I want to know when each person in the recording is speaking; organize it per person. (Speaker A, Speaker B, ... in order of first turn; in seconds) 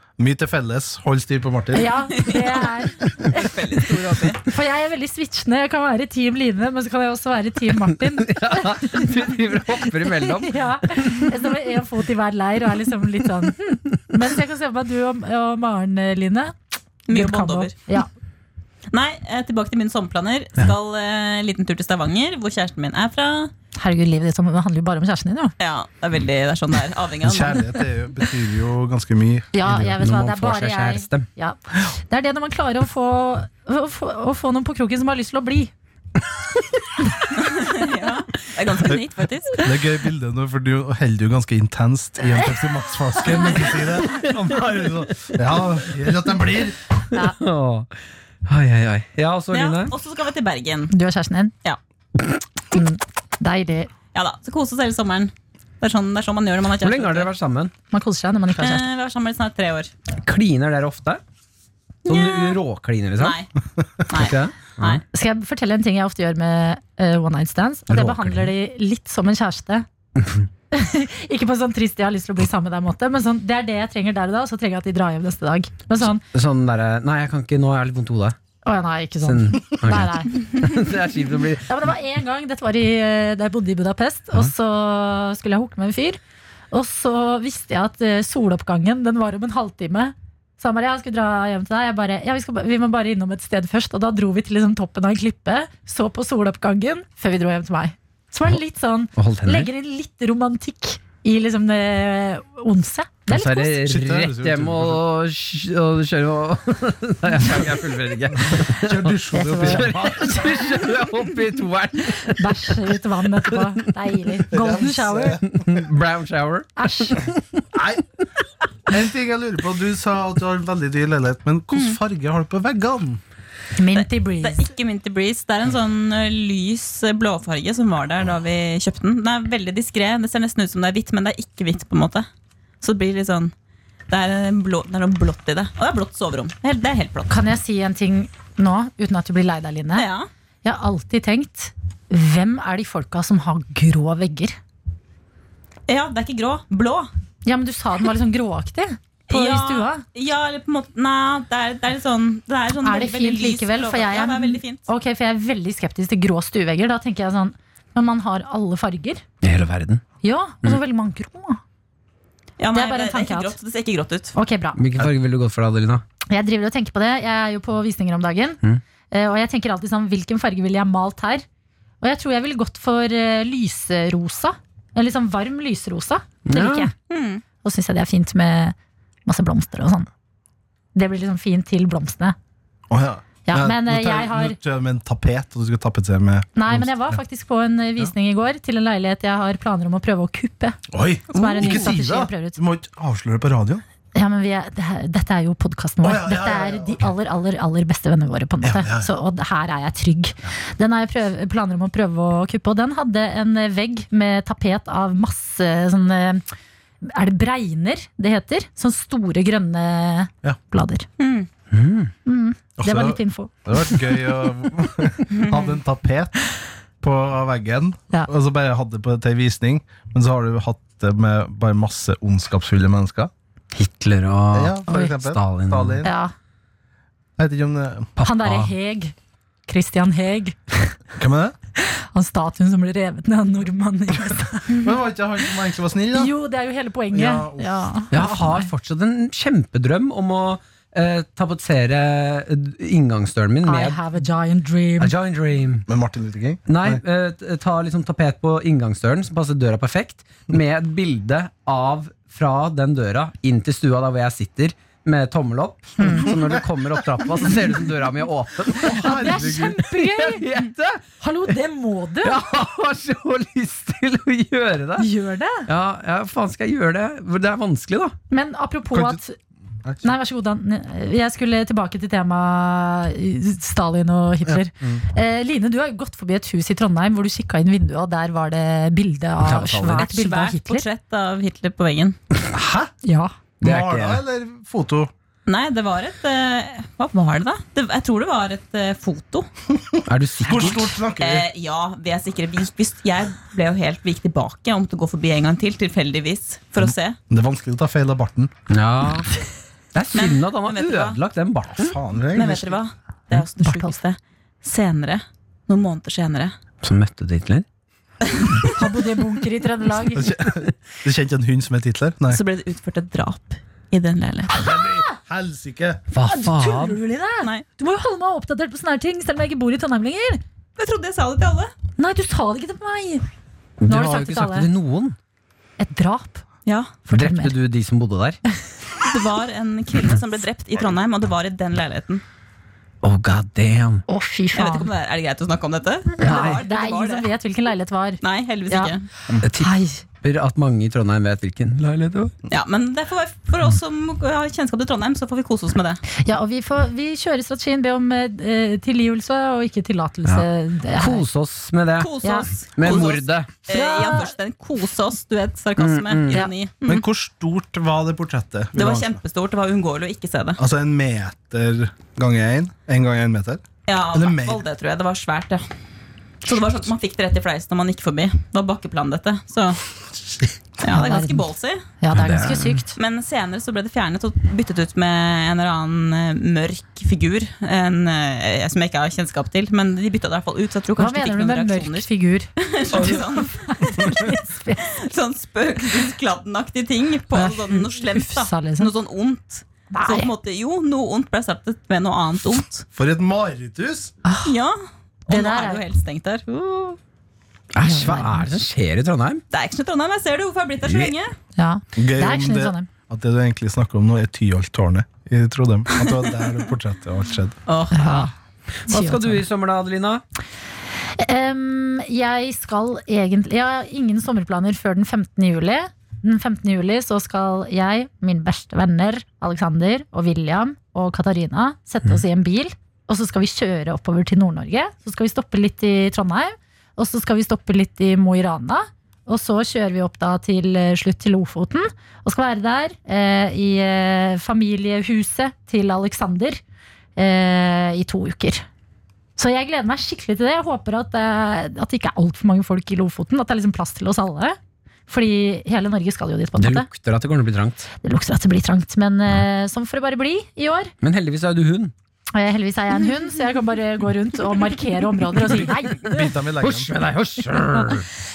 Speaker A: 0.2-2.0, 27.2-29.5, 39.6-46.8, 103.8-105.0, 108.5-110.7, 114.5-115.8, 117.7-118.0, 118.9-123.2, 182.9-187.2, 190.9-193.8, 196.0-197.1, 198.6-199.1, 212.8-216.3, 217.0-223.3, 224.5-226.1, 227.4-228.1, 231.2-231.6, 234.7-236.3, 237.1-237.8, 245.9-247.0, 256.2-256.6, 258.8-259.8, 268.9-269.2, 269.9-270.1, 274.5-275.0, 282.5-282.9, 283.6-285.1, 289.7-291.5, 297.3-298.5, 301.8-302.8, 310.1-312.4, 314.5-316.0, 356.9-359.2, 360.6-364.6, 392.9-394.1, 401.9-407.6, 456.0-456.9
Speaker B: 1.7-3.6, 4.4-9.1, 10.0-16.6, 17.1-18.1, 23.8-25.5, 29.5-35.7, 50.9-51.5, 52.7-53.9, 57.9-58.9, 65.1-69.9, 70.7-76.2, 78.7-80.4, 81.7-86.2, 86.7-103.8, 109.3-110.0, 112.3-115.4, 116.8-117.2, 123.8-124.7, 137.3-140.1, 140.6-144.6, 147.4-150.0, 152.8-159.2, 160.2-161.6, 162.7-163.6, 164.3-164.8, 166.3-168.6, 169.1-171.4, 172.0-176.9, 177.6-180.1, 180.9-182.4, 183.5-184.6, 186.6-192.6, 194.2-206.4, 207.0-211.1, 212.2-214.1, 226.0-226.3, 228.2-229.1, 229.7-231.0, 231.8-234.8, 236.1-238.7, 243.6-245.1, 256.0-256.3, 258.9-260.5, 261.2-262.4, 265.0-265.7, 268.3-269.4, 270.0-280.9, 283.0-283.3, 303.6-304.0, 308.7-310.3, 316.2-320.4, 322.0-323.2, 323.9-324.7, 325.8-326.4, 327.1-327.6, 334.1-334.9, 336.2-338.9, 339.5-340.0, 346.2-351.3, 352.2-352.5, 353.7-354.3, 370.9-371.5, 372.0-373.0, 381.0-384.9, 387.3-388.9, 389.9-390.3, 394.2-394.5, 395.3-395.8, 397.8-398.6, 401.6-402.9, 407.9-408.3, 408.9-409.4, 411.2-436.6, 437.1-438.6, 439.4-446.9, 448.0-450.9, 452.4-456.4
Speaker C: 2.2-4.4, 17.1-17.7, 18.9-23.5, 25.6-27.7, 37.3-39.6, 49.5-50.9, 54.1-57.3, 58.6-59.9, 62.1-62.6, 63.2-63.5, 64.1-65.0, 121.7-122.0, 123.9-132.3, 132.8-133.5, 134.1-137.3, 139.9-140.3, 145.9-147.1, 149.3-154.8, 162.6-164.3, 177.1-177.4, 191.3-191.9, 211.2-211.5, 215.3-215.6, 279.9-282.2, 285.5-289.5, 291.2-297.2, 300.1-301.2, 302.3-306.5, 308.3-308.7, 312.3-314.5, 320.8-321.7, 326.6-327.0, 329.0-332.2, 334.6-337.3, 338.2-339.1, 342.5-346.0, 352.0-357.0, 358.8-360.6, 363.9-365.7, 366.4-369.8, 370.8-371.8, 373.0-382.1, 382.6-384.1, 384.8-392.9, 394.4-397.0, 399.5-401.4, 407.7-408.3
Speaker D: 8.2-11.3, 29.6-31.3, 47.1-47.9, 48.5-49.9, 56.8-57.7, 60.1-61.2, 62.1-63.4, 64.1-65.0, 67.9-68.5, 70.2-70.5, 76.3-78.4, 79.2-81.7, 99.2-99.7, 103.3-112.8, 115.4-117.6, 159.4-160.0, 164.8-166.0, 176.5-176.9, 211.7-212.1, 223.7-226.1, 228.2-228.7, 238.1-244.0, 245.0-245.9, 246.7-261.0, 262.2-265.1, 265.7-268.1, 279.4-280.1, 283.6-284.2, 290.1-290.9, 298.7-299.3, 299.9-302.0, 306.8-307.6, 316.1-317.0, 323.8-325.1, 327.1-328.4, 333.0-334.0, 336.2-336.6, 339.4-342.3, 350.3-352.2, 352.8-353.5, 355.8-356.4, 372.1-372.8, 397.7-399.4, 400.9-401.1, 408.9-410.2, 446.6-447.9, 451.0-451.9, 456.6-458.1